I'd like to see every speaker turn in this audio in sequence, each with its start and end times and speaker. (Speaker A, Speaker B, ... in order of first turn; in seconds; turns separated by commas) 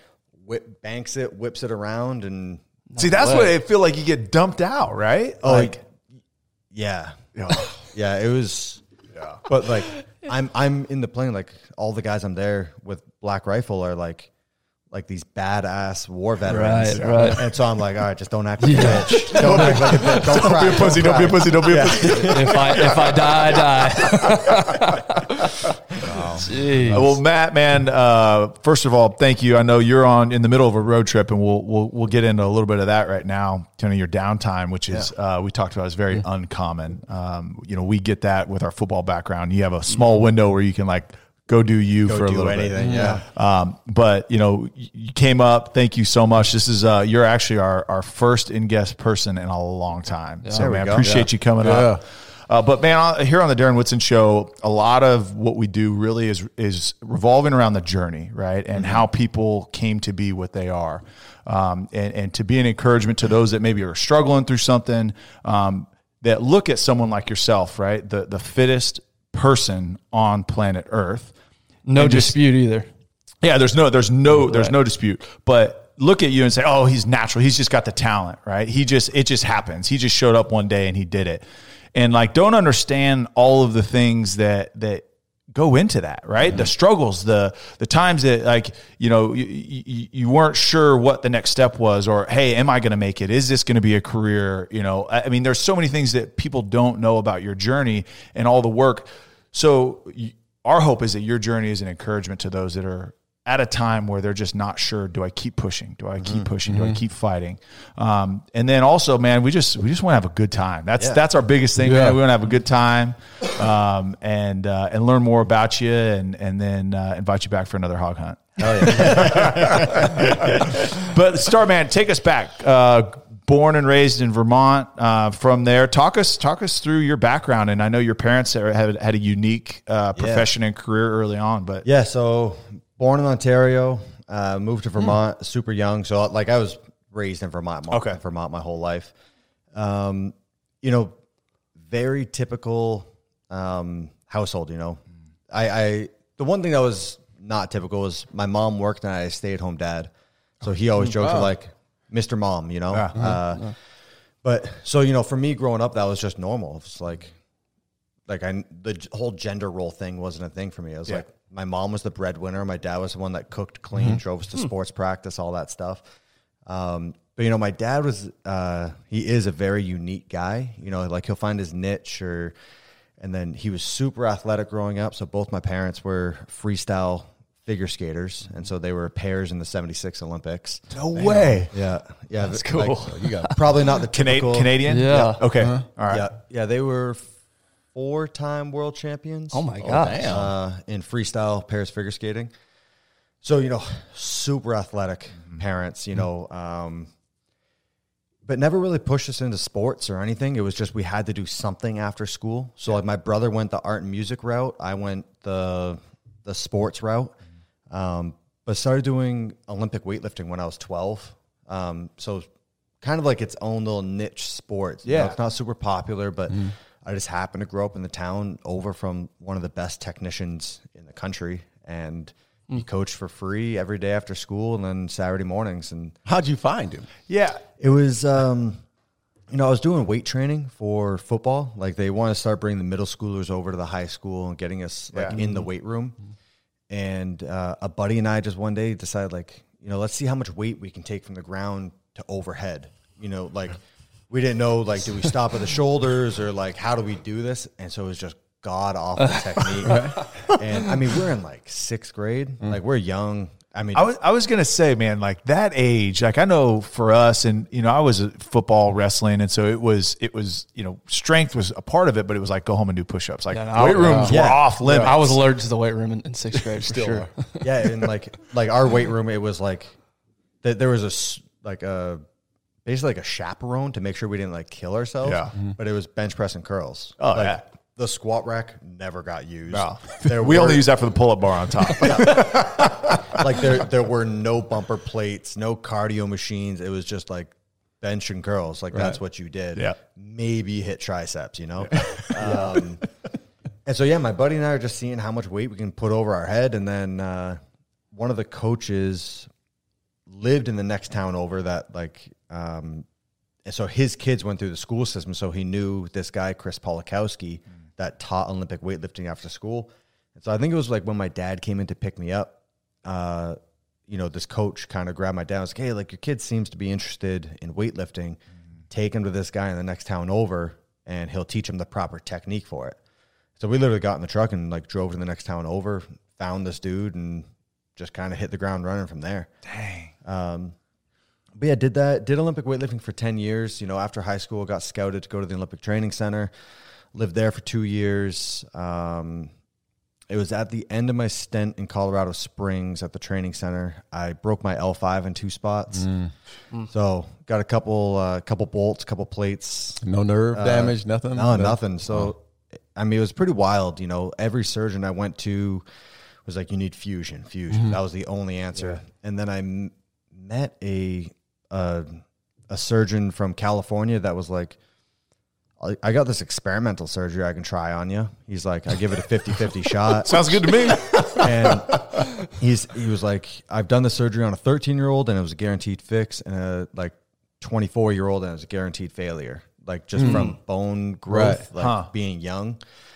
Speaker A: 0.4-2.6, Speaker B: 2.9-3.5, Speaker C: 3.0-5.8, Speaker A: 5.4-5.8, Speaker A: 6.7-8.8, Speaker C: 7.3-7.8, Speaker C: 9.1-9.4, Speaker A: 9.4-14.3, Speaker A: 14.9-23.1, Speaker B: 16.5-17.4, Speaker C: 16.9-17.5, Speaker B: 18.6-20.6, Speaker C: 19.2-71.3, Speaker B: 21.9-25.5, Speaker A: 26.0-26.5, Speaker B: 26.4-27.1, Speaker A: 42.0-43.2, Speaker D: 42.8-43.2, Speaker B: 50.4-50.7, Speaker A: 50.5-51.1, Speaker D: 51.0-52.0, Speaker B: 71.8-72.9, Speaker C: 71.9-72.4, Speaker C: 73.4-81.4, Speaker B: 74.4-74.7, Speaker C: 81.9-85.0, Speaker C: 85.5-131.8, Speaker A: 106.2-106.5, Speaker D: 106.7-107.0, Speaker A: 111.0-111.2, Speaker D: 111.8-112.2, Speaker A: 118.6-120.7, Speaker A: 130.2-130.5, Speaker A: 131.8-139.1, Speaker C: 137.9-138.2, Speaker A: 139.7-141.1, Speaker A: 141.8-150.1, Speaker A: 150.6-153.7, Speaker D: 151.2-151.5, Speaker C: 152.9-153.2, Speaker D: 153.1-153.4, Speaker A: 154.4-157.3, Speaker A: 158.3-166.0, Speaker A: 166.7-172.5, Speaker A: 173.2-180.9, Speaker C: 180.9-181.7, Speaker D: 181.1-181.6, Speaker A: 181.7-184.8, Speaker B: 182.5-183.5, Speaker D: 183.0-183.6, Speaker C: 184.1-186.3, Speaker B: 184.8-185.4, Speaker D: 185.6-185.8, Speaker A: 186.1-187.3, Speaker A: 187.9-192.5, Speaker B: 189.5-190.4, Speaker D: 189.8-190.5, Speaker A: 193.4-197.1, Speaker A: 198.4-207.3, Speaker A: 207.9-212.5, Speaker A: 213.0-226.2, Speaker C: 215.0-215.3, Speaker D: 226.2-227.1, Speaker C: 227.3-227.6, Speaker A: 227.8-228.8, Speaker A: 229.5-236.2, Speaker C: 235.1-235.4, Speaker A: 236.9-243.8, Speaker A: 244.3-254.1, Speaker B: 249.6-249.9, Speaker D: 249.8-250.2, Speaker C: 253.9-265.4, Speaker B: 263.5-264.4, Speaker D: 263.7-264.4, Speaker A: 264.3-265.2, Speaker B: 265.0-267.6, Speaker D: 266.8-267.3, Speaker A: 267.6-269.9, Speaker A: 270.6-272.2, Speaker A: 272.8-280.8, Speaker C: 275.2-275.5, Speaker C: 277.2-277.6, Speaker C: 279.7-283.6, Speaker A: 282.0-293.0, Speaker C: 291.9-292.6, Speaker A: 293.9-297.6, Speaker A: 298.1-299.5, Speaker A: 300.3-303.1, Speaker A: 303.6-318.4, Speaker A: 318.9-323.0, Speaker A: 323.6-329.5, Speaker C: 329.6-330.1, Speaker A: 330.2-330.7, Speaker A: 331.6-336.5, Speaker A: 337.1-339.5, Speaker A: 340.3-346.1, Speaker D: 345.9-346.3, Speaker A: 346.9-350.0, Speaker D: 350.0-352.3, Speaker A: 350.5-352.4, Speaker A: 352.9-355.8, Speaker A: 356.4-364.8, Speaker D: 357.7-358.0, Speaker A: 365.8-382.8, Speaker C: 370.2-371.7, Speaker D: 380.1-380.6, Speaker D: 381.3-381.6, Speaker C: 381.8-382.1